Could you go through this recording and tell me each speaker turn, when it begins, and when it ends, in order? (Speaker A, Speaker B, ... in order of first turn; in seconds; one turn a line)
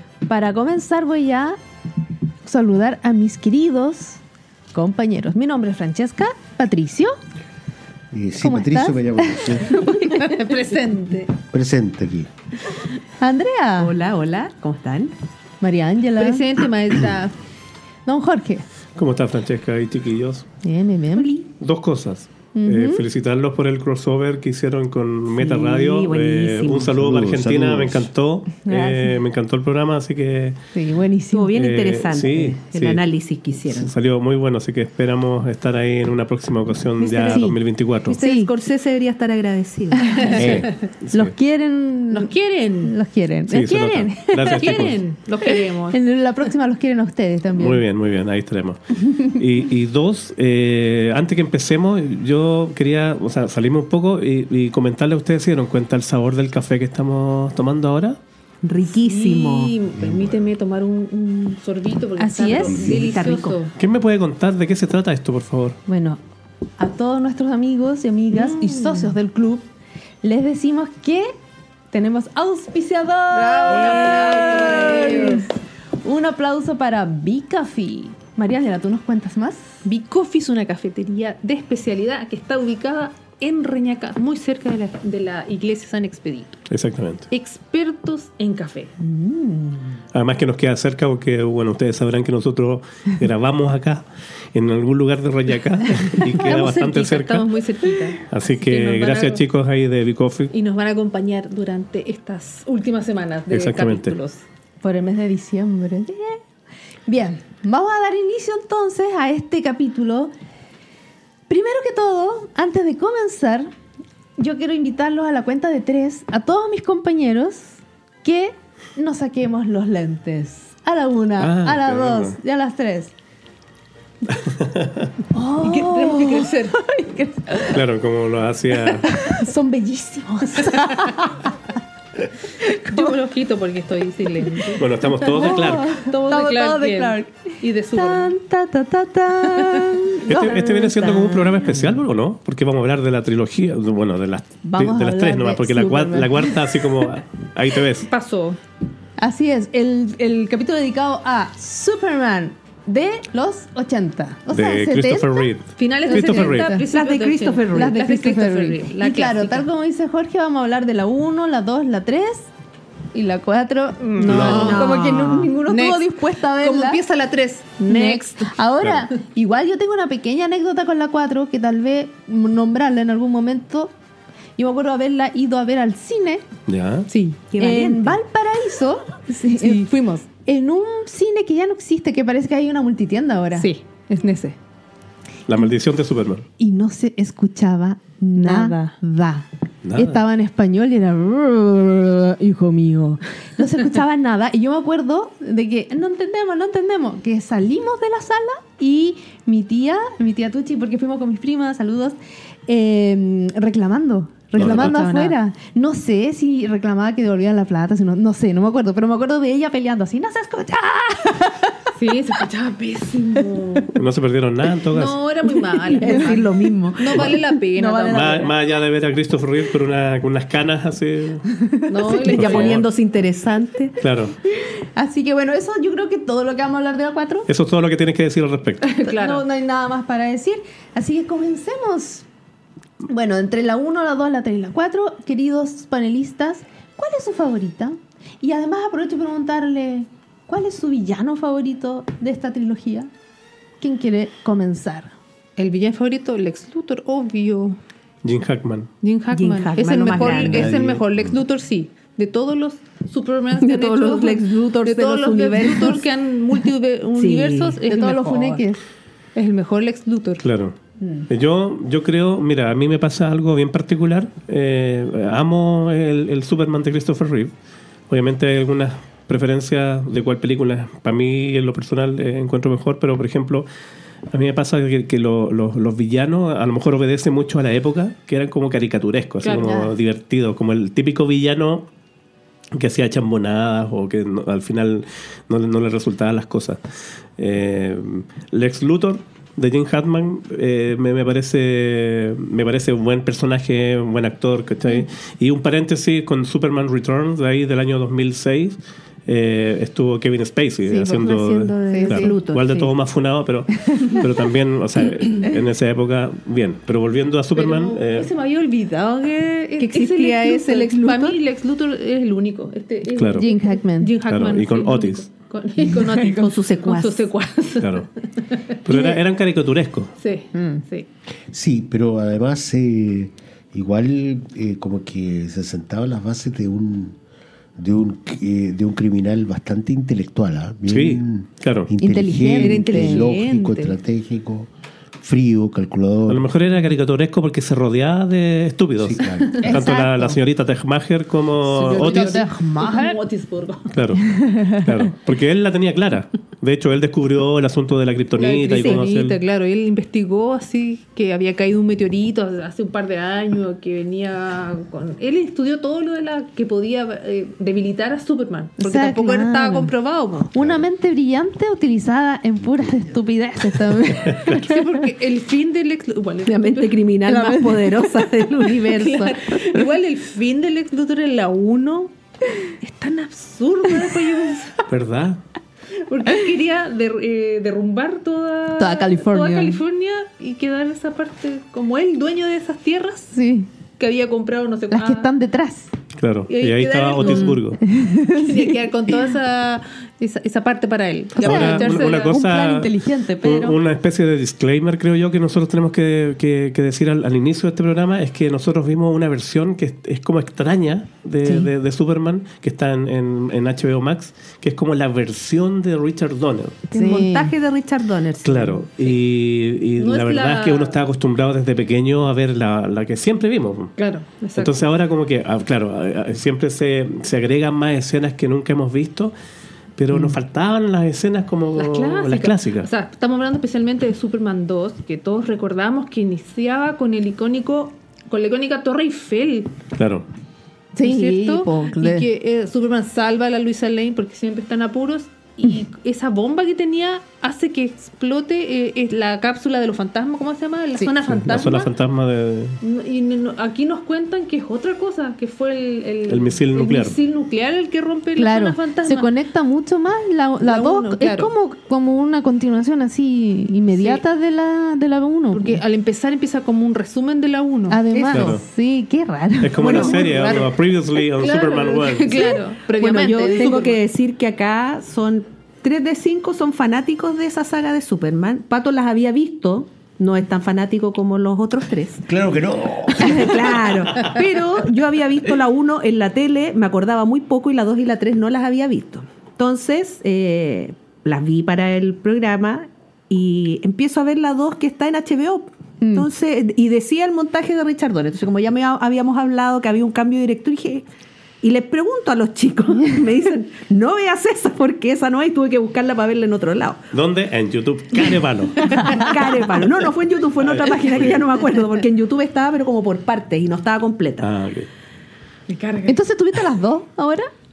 Speaker A: 0.3-1.6
Speaker A: 2.4-4.2
Speaker A: 4.7-7.2
Speaker B: 8.1-9.7
Speaker A: 8.4-10.5
Speaker C: 9.9-11.3
Speaker B: 11.5-12.3
Speaker A: 13.2-13.9
Speaker D: 13.8-15.2
Speaker A: 15.6-16.5
Speaker C: 16.2-17.3
Speaker A: 18.1-18.7
Speaker E: 19.0-20.5
Speaker A: 20.6-21.3
Speaker D: 21.1-21.5
Speaker E: 21.6-30.6
Speaker A: 22.6-23.0
Speaker D: 25.3-26.9
Speaker B: 26.8-28.1
Speaker A: 30.7-31.5
Speaker D: 31.3-33.9
Speaker E: 31.5-33.0
Speaker E: 33.7-38.2
Speaker D: 37.0-37.5
Speaker A: 37.3-37.6
Speaker D: 38.1-40.3
Speaker A: 38.1-38.5
Speaker A: 40.0-40.4
Speaker C: 40.0-40.7
Speaker E: 40.4-41.4
Speaker B: 40.4-40.7
Speaker A: 41.1-44.8
Speaker C: 42.1-42.9
Speaker E: 43.5-45.0
Speaker C: 44.5-46.0
Speaker A: 45.4-47.8
Speaker E: 47.5-58.2
Speaker D: 58.6-59.7
Speaker C: 59.0-63.7
Speaker B: 60.0-60.5
Speaker A: 62.2-63.0
Speaker B: 62.6-63.1
Speaker D: 62.8-63.6
Speaker E: 63.8-65.8
Speaker A: 65.9-66.2
Speaker A: 66.8-69.7
Speaker C: 68.3-69.1
Speaker A: 70.2-71.3
Speaker A: 71.9-75.5
Speaker C: 73.3-75.5
Speaker D: 73.7-75.1
Speaker A: 76.0-79.7
Speaker C: 79.8-86.6
Speaker E: 86.7-87.3
Speaker C: 87.3-88.9
Speaker A: 89.0-89.9
Speaker E: 90.1-97.6
Speaker C: 96.2-99.4
Speaker E: 98.3-100.5
Speaker C: 100.5-104.4
Speaker E: 103.5-104.2
Speaker A: 104.8-106.4
Speaker A: 107.1-110.3
Speaker A: 111.5-113.7
Speaker A: 114.4-123.1
Speaker E: 121.4-122.4
Speaker E: 124.5-125.1
Speaker A: 125.3-127.8
Speaker C: 125.6-126.8
Speaker E: 127.7-129.1
Speaker A: 129.1-131.5
Speaker C: 130.8-131.1
Speaker A: 132.7-133.1
Speaker C: 132.8-138.3
Speaker E: 134.8-135.9
Speaker A: 135.2-141.9
Speaker C: 139.7-139.9
Speaker E: 140.3-148.1
Speaker A: 144.6-147.0
Speaker C: 148.0-148.6
Speaker A: 149.2-155.5
Speaker E: 154.5-156.7
Speaker C: 155.8-159.7
Speaker A: 156.1-156.9
Speaker D: 156.9-158.0
Speaker A: 157.7-162.5
Speaker A: 163.1-167.0
Speaker C: 164.0-165.0
Speaker D: 164.2-165.6
Speaker E: 164.2-164.9
Speaker C: 165.7-168.5
Speaker A: 167.8-173.9
Speaker A: 174.6-176.4
Speaker E: 176.7-177.1
Speaker C: 177.1-177.4
Speaker D: 177.5-178.2
Speaker A: 177.6-183.7
Speaker C: 179.6-180.3
Speaker C: 183.6-184.6
Speaker E: 185.5-186.5
Speaker A: 186.6-202.2
Speaker C: 188.4-188.9
Speaker E: 189.8-190.2
Speaker A: 202.7-211.7
Speaker E: 204.6-205.0
Speaker C: 204.7-205.3
Speaker C: 212.0-213.9
Speaker E: 213.9-215.2
Speaker C: 214.9-218.4
Speaker A: 215.9-216.3
Speaker D: 215.9-218.5
Speaker E: 218.1-221.4
Speaker A: 221.6-222.3
Speaker C: 221.9-222.8
Speaker D: 222.1-224.0
Speaker E: 222.3-222.9
Speaker E: 224.0-224.3
Speaker A: 225.0-227.5
Speaker E: 227.5-228.9
Speaker C: 228.8-229.4
Speaker A: 229.0-232.2
Speaker A: 233.1-243.1
Speaker A: 243.8-245.1
Speaker C: 245.6-247.8
Speaker E: 248.2-248.9
Speaker C: 249.0-258.6
Speaker D: 249.3-250.8
Speaker E: 250.3-250.9
Speaker B: 250.7-251.2
Speaker D: 253.6-256.1
Speaker D: 257.1-257.8
Speaker A: 257.9-258.8
Speaker C: 259.4-260.4
Speaker E: 260.4-260.8
Speaker E: 261.3-267.5
Speaker E: 268.1-273.7
Speaker E: 274.3-281.9
Speaker C: 279.4-279.8
Speaker A: 279.5-279.9
Speaker E: 282.7-286.8
Speaker E: 287.4-308.3
Speaker D: 300.9-302.9
Speaker A: 301.9-302.4
Speaker A: 303.9-304.2
Speaker C: 307.6-319.2
Speaker D: 309.8-311.4
Speaker E: 313.1-313.5
Speaker A: 313.4-314.2
Speaker E: 314.3-315.3
Speaker A: 315.9-317.1
Speaker D: 316.5-317.2
Speaker E: 317.8-318.1
Speaker E: 318.9-320.1
Speaker C: 320.2-321.1
Speaker A: 320.5-320.8
Speaker B: 321.5-327.2
Speaker B: 327.8-336.4
Speaker E: 330.9-331.9
Speaker A: 332.0-333.3
Speaker C: 332.6-333.9
Speaker D: 333.0-333.3
Speaker E: 336.3-342.4
Speaker B: 339.0-339.6
Speaker A: 339.6-340.4
Speaker A: 341.7-343.2
Speaker C: 341.8-344.0
Speaker E: 343.9-349.4
Speaker A: 344.2-344.9
Speaker C: 348.4-360.5
Speaker D: 348.7-349.1
Speaker A: 358.8-359.9
Speaker A: 360.5-364.8
Speaker B: 360.5-360.9
Speaker B: 362.6-363.2
Speaker C: 364.4-367.1
Speaker D: 366.4-369.4
Speaker A: 367.3-368.3
Speaker C: 368.8-372.1
Speaker C: 372.8-374.9
Speaker E: 374.9-375.4
Speaker C: 376.1-383.4
Speaker A: 378.8-379.8
Speaker A: 383.3-383.7
Speaker C: 384.0-385.3
Speaker A: 384.9-385.9
Speaker E: 386.2-387.8
Speaker C: 386.5-387.6
Speaker A: 387.2-388.8
Speaker C: 388.4-392.4
Speaker A: 391.4-393.8
Speaker E: 391.4-406.8
Speaker A: 406.9-407.5
Speaker D: 406.9-409.2
Speaker E: 408.4-413.9
Speaker C: 410.0-411.0
Speaker C: 414.0-414.9
Speaker E: 414.6-419.3
Speaker E: 420.0-422.9
Speaker C: 421.8-429.7
Speaker E: 430.0-430.3
Speaker A: 430.9-432.3
Speaker C: 431.0-441.9
Speaker E: 441.3-442.8
Speaker C: 442.8-449.3
Speaker E: 446.3-447.2
Speaker A: 448.4-455.8
Speaker C: 450.6-451.5
Speaker C: 453.9-454.2
Speaker C: 455.5-458.0
Speaker A: 457.9-460.2
Speaker D: 458.1-458.6
Speaker E: 458.3-458.6
Speaker E: 459.6-462.6
Speaker D: 459.8-460.7
Speaker C: 459.9-460.6
Speaker C: 461.3-464.0
Speaker D: 462.9-472.3
Speaker A: 463.5-463.8
Speaker B: 472.3-473.7
Speaker D: 473.1-491.1
Speaker A: 486.0-486.3
Speaker D: 491.6-497.0
Speaker E: 497.1-499.2
Speaker D: 498.9-504.5
Speaker E: 500.6-501.4
Speaker E: 504.4-504.9
Speaker C: 505.7-506.2
Speaker A: 506.1-507.5